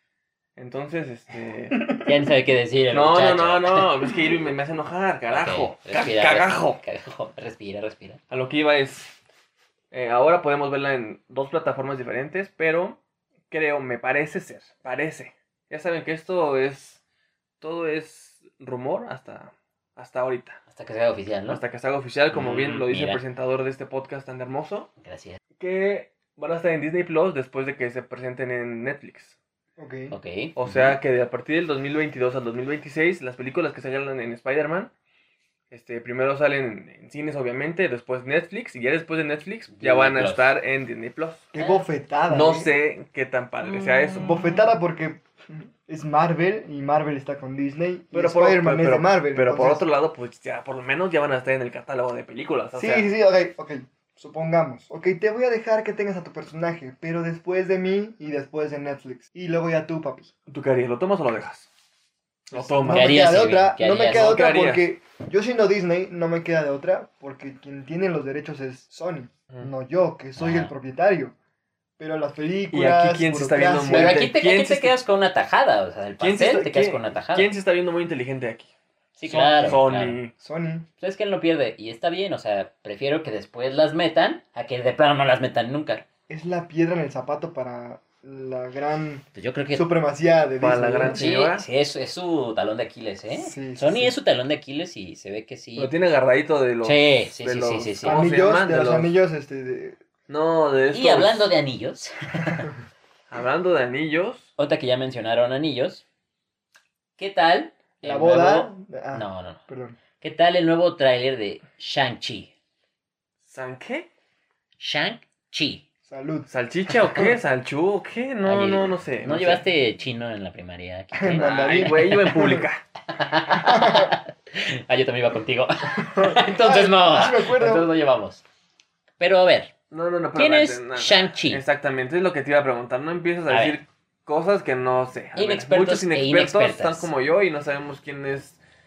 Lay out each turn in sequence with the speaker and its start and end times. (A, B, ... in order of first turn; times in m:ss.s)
0:00.6-0:01.8 A
0:01.8-0:02.0 B
0:02.0-0:03.9 C
0:02.9-0:06.8 A
0:05.3-0:08.2 C
0:08.3-0:09.1 A
0:09.9-0:13.0 A
0:13.5-0:17.0 A
0:17.6-0:20.6 A
0:20.7-0:21.6 C
0:21.5-0:24.9 A
0:22.3-0:23.2 C
0:25.0-0:25.4 C
0:25.6-0:29.4 A
0:29.8-0:30.2 B
0:30.1-0:31.0 C
0:30.6-0:34.9 A
0:35.7-0:41.5 A
0:39.7-0:40.5 C
0:41.5-0:42.7 B
0:41.6-0:41.8 C
0:42.3-0:44.4 A
0:44.2-0:49.9 B
0:48.1-0:53.1 A
0:52.8-1:00.3 B
1:00.5-1:01.7 A
1:02.5-1:11.3 B
1:02.5-1:03.4 A
1:02.8-1:04.4 C
1:04.0-1:04.8 A
1:10.4-1:10.7 C
1:12.0-1:14.3 B
1:12.7-1:15.0 A
1:13.9-1:17.5 C
1:16.2-1:18.7 A
1:19.2-1:20.2 C
1:19.2-1:20.3 A
1:20.4-1:20.9 B
1:21.0-1:26.0 C
1:26.3-1:31.3 B
1:29.4-1:29.8 C
1:30.6-1:31.7 A
1:31.1-1:35.9 C
1:33.3-1:34.2 B
1:35.8-1:39.1 A
1:36.8-1:38.3 C
1:38.0-1:40.0 B
1:40.3-1:41.5 A
1:40.9-1:42.7 C
1:43.3-1:44.5 A
1:44.6-1:46.0 C
1:47.2-1:49.6 C
1:48.0-1:50.0 B
1:50.2-1:52.5 C
1:53.5-1:54.1 A
1:54.8-1:55.9 C
1:56.1-1:56.5 B
1:56.5-1:59.6 A
1:58.4-2:01.5 C
2:01.1-2:02.7 B
2:01.4-2:02.8 A
2:03.1-2:08.4 C
2:03.6-2:04.1 B
2:06.0-2:07.9 B
2:09.2-2:09.7 C
2:09.9-2:18.6 A
2:10.4-2:11.6 C
2:13.5-2:13.8 C
2:15.4-2:17.1 C